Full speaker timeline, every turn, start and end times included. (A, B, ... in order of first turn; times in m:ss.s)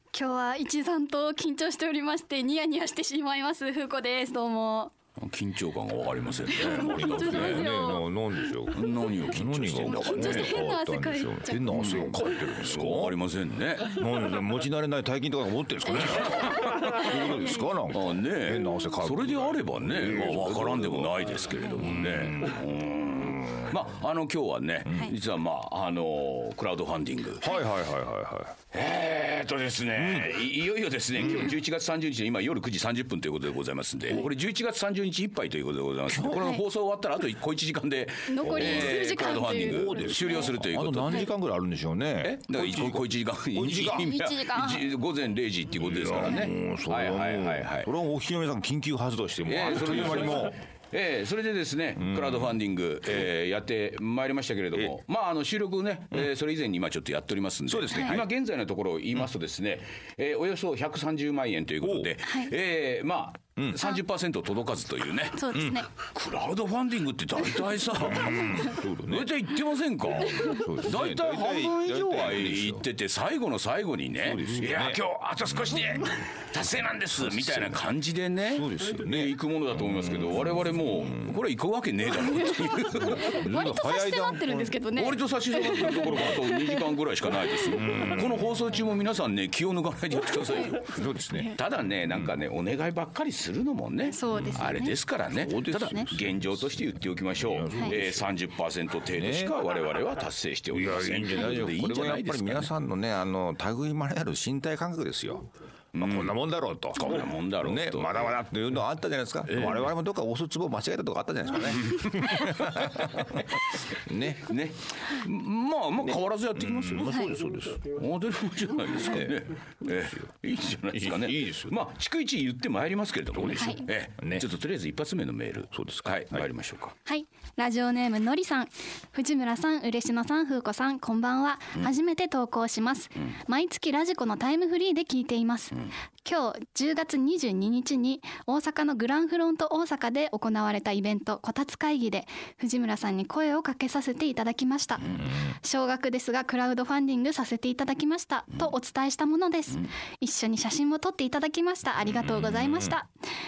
0:00.1-0:04.9 A
0:05.2-0:07.7 B
0:06.5-0:08.8 A
0:06.6-0:13.2 C
0:08.7-0:10.6 B
0:09.7-0:12.2 A
0:11.7-0:14.0 B
0:13.8-0:23.8 C
0:16.0-0:17.0 B
0:16.0-0:17.4 A
0:17.9-0:27.5 B
0:27.4-0:28.6 C
0:28.7-0:41.3 B
0:30.0-0:30.4 C
0:31.2-0:31.5 C
0:36.1-0:36.6 C
0:36.3-0:36.6 A
0:38.3-0:40.5 A
0:38.4-0:44.1 C
0:42.2-0:47.9 B
0:43.8-0:44.9 A
0:45.8-0:50.6 C
0:46.2-0:46.5 A
0:49.4-1:23.4 B
0:52.0-0:52.5 C
0:57.7-0:58.3 C
0:57.9-0:58.2 A
1:01.8-1:02.1 C
1:02.2-1:02.5 A
1:05.4-1:05.9 A
1:07.9-1:09.4 C
1:10.2-1:12.8 C
1:14.2-1:16.2 C
1:17.1-1:17.8 C
1:18.5-1:21.4 C
1:22.2-1:26.9 A
1:23.0-1:24.8 C
1:24.9-1:31.0 B
1:25.7-1:26.4 C
1:27.7-1:28.7 C
1:30.6-1:31.5 A
1:30.8-1:31.6 C
1:31.5-1:42.7 B
1:34.1-1:34.9 A
1:34.3-1:38.3 C
1:39.1-1:39.6 C
1:40.7-1:45.5 C
1:45.9-1:46.3 B
1:46.0-1:54.5 C
1:47.0-1:48.3 B
1:49.5-1:49.9 B
1:51.9-1:57.2 B
1:56.6-1:57.9 C
1:57.8-2:06.9 B
1:59.0-1:59.4 C
2:00.9-2:01.8 C
2:03.4-2:03.6 C
2:03.5-2:03.8 A
2:04.2-2:04.4 C
2:05.7-2:06.4 C
2:07.0-2:33.1 A
2:32.2-2:32.9 C